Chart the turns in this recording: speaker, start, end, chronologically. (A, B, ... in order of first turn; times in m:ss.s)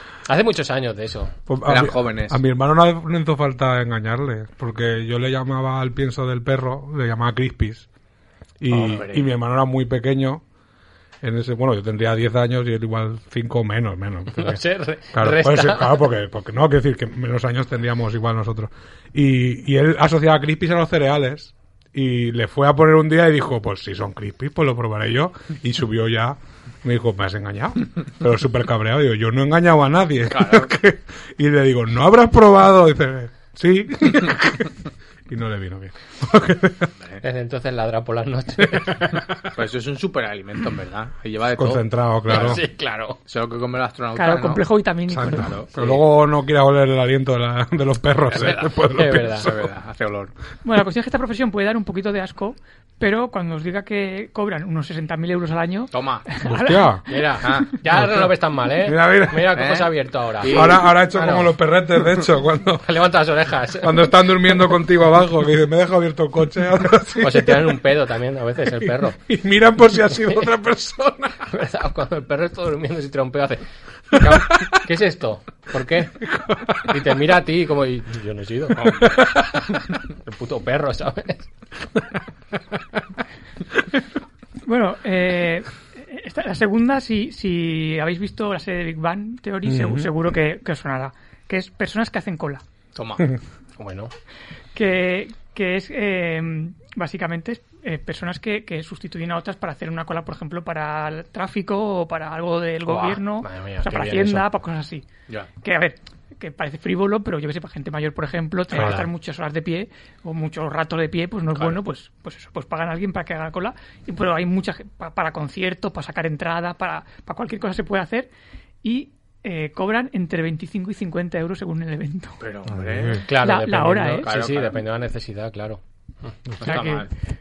0:00.3-0:01.3 A
0:01.5-0:07.9 B
0:01.6-0:02.4 C
0:08.6-0:10.4 B
0:08.7-0:09.3 C
0:11.2-0:34.7 B
0:14.3-0:16.0 A
0:30.3-0:30.7 C
0:35.3-0:36.9 B
0:37.2-0:39.2 A
0:38.6-0:39.2 B
0:39.5-0:41.8 C
0:41.5-0:42.6 B
0:42.3-0:43.2 A
0:43.3-0:44.6 C
0:44.1-0:45.5 D
0:45.1-0:49.7 B
0:45.3-0:45.7 C
0:48.3-0:48.8 C
0:48.9-0:49.5 A
0:49.4-0:50.3 C
0:50.6-0:57.0 D
0:55.9-0:56.3 C
0:56.4-0:57.1 B
0:57.1-1:01.5 A
0:57.4-0:57.7 C
0:57.9-0:59.6 B
0:59.5-1:00.9 C
1:00.5-1:02.9 B
1:02.8-1:04.3 A
1:03.8-1:07.8 B
1:07.2-1:09.2 A
1:08.7-1:11.5 B
1:11.5-1:16.2 A
1:14.1-1:14.8 B
1:16.2-1:17.0 B
1:16.9-1:18.9 A
1:18.7-1:19.1 C
1:19.0-1:19.8 B
1:20.2-1:21.5 A
1:24.6-1:32.6 D
1:29.6-1:30.1 B
1:32.9-1:33.2 C
1:33.8-1:34.1 A
1:34.7-1:45.1 D
1:42.9-1:44.5 A
1:45.6-1:58.3 D
1:48.7-1:49.0 B
1:48.7-1:49.1 A
1:58.8-2:02.4 D
2:02.4-2:03.3 C
2:02.7-2:03.2 B
2:03.2-2:06.3 A
2:03.3-2:04.3 D
2:04.2-2:04.8 C
2:06.5-2:06.7 B
2:06.6-2:07.1 D
2:06.6-2:07.1 C